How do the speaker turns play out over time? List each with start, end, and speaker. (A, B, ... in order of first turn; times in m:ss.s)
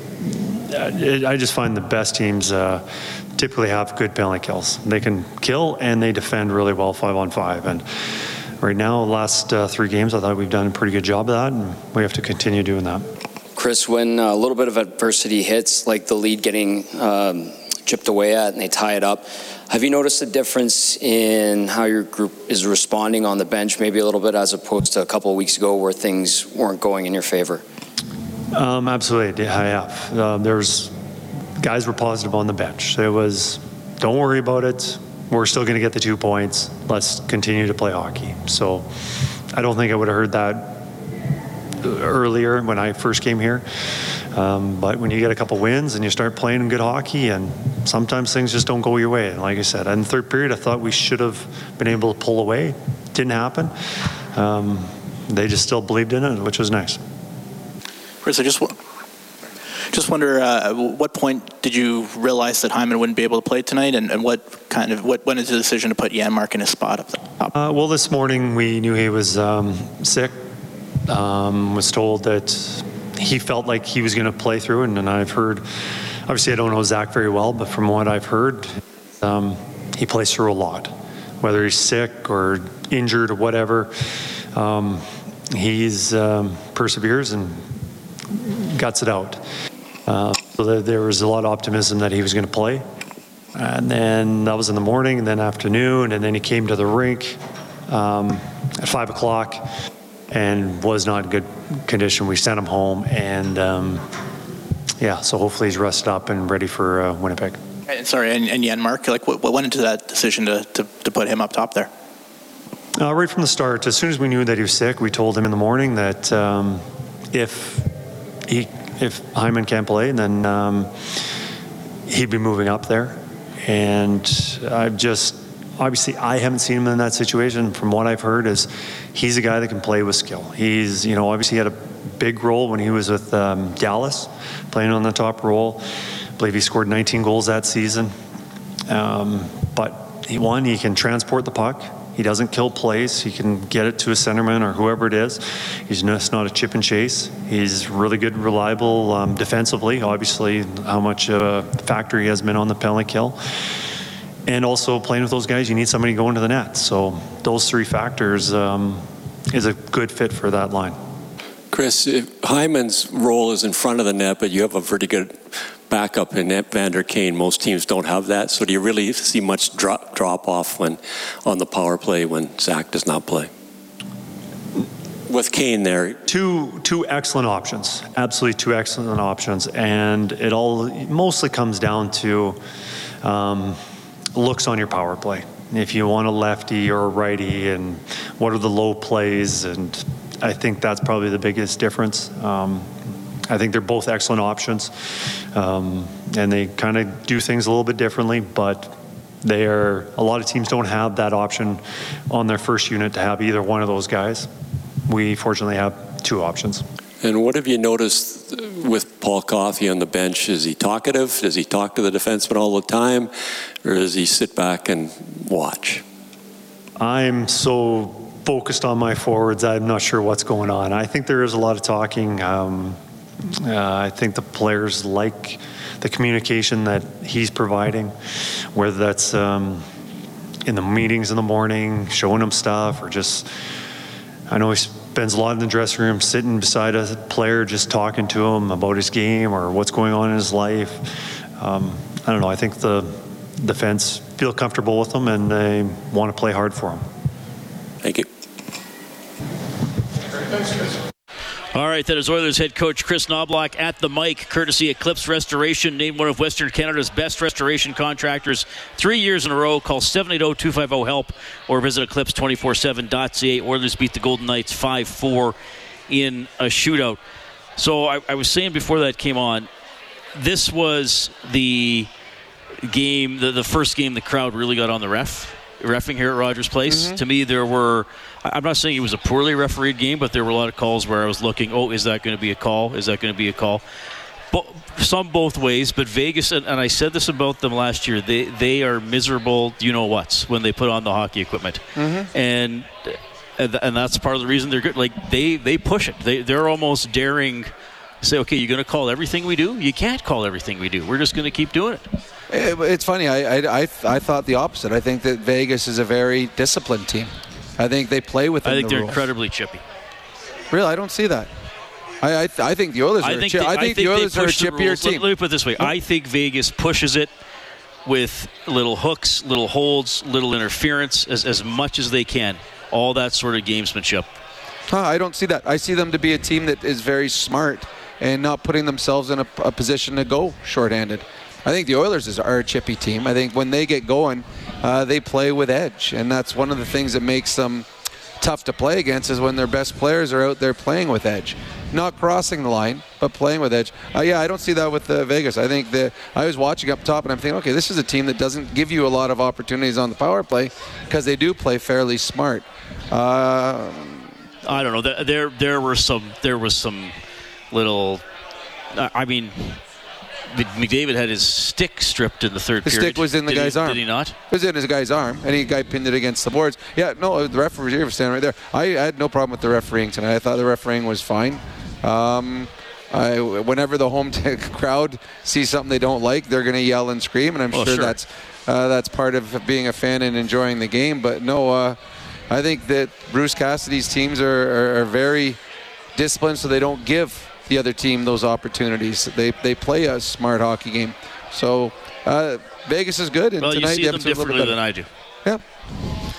0:00.2-0:02.8 A
0:03.4-0:07.8 A
0:08.6-0:13.1 A
0:13.6-0:27.6 B
0:28.5-0:30.9 A
0:31.6-0:38.9 A
0:39.5-0:40.8 A
0:41.8-0:43.6 A
0:44.3-0:53.7 A
0:54.3-0:57.0 A
0:58.2-0:58.8 C
0:59.9-1:07.5 C
1:07.5-1:10.4 A
1:11.1-1:15.6 A
1:16.3-1:18.7 A
1:19.2-1:23.9 A
1:24.5-1:27.7 A
1:28.3-1:29.4 A
1:30.1-1:32.8 A
1:33.5-1:39.7 A
1:40.3-1:44.0 A
1:45.0-1:47.6 A
1:47.9-1:51.9 C
1:53.0-1:57.9 A
1:58.5-2:00.9 A
2:02.1-2:15.8 A
2:16.4-2:18.1 A
2:18.9-2:33.4 A
2:34.5-2:41.0 A
2:41.7-2:53.5 D
2:55.3-2:56.2 D
2:56.2-3:02.6 A
3:03.2-3:03.8 A
3:04.4-3:12.9 A
3:13.5-3:14.9 A
3:15.5-3:24.5 A
3:25.1-3:26.9 A
3:27.2-3:36.0 D
3:37.0-3:43.0 A
3:43.5-3:48.1 A
3:48.7-3:49.9 A
3:50.6-3:53.5 A
3:54.5-4:01.0 A
4:01.6-4:07.0 A
4:08.0-4:08.3 D
4:11.7-4:25.5 E
4:26.1-4:27.2 E
4:27.8-4:29.7 E
4:30.3-4:32.1 E
4:32.8-4:43.8 E
4:36.8-4:37.2 F
4:44.5-4:57.7 E
4:52.0-4:52.3 F
4:58.2-5:02.1 E
5:02.5-5:09.3 F
5:08.6-5:09.8 E
5:10.7-5:11.5 F
5:12.2-5:15.3 F
5:13.2-5:17.3 E
5:18.0-5:24.3 E
5:24.9-5:37.9 F
5:38.4-5:54.3 F
5:54.6-5:57.2 E
5:57.7-5:58.2 E
5:58.9-5:59.8 E
6:00.5-6:04.3 E
6:02.8-6:22.0 F
6:17.7-6:18.2 E
6:22.5-6:25.6 F
6:26.2-6:34.8 F
6:33.6-6:35.1 E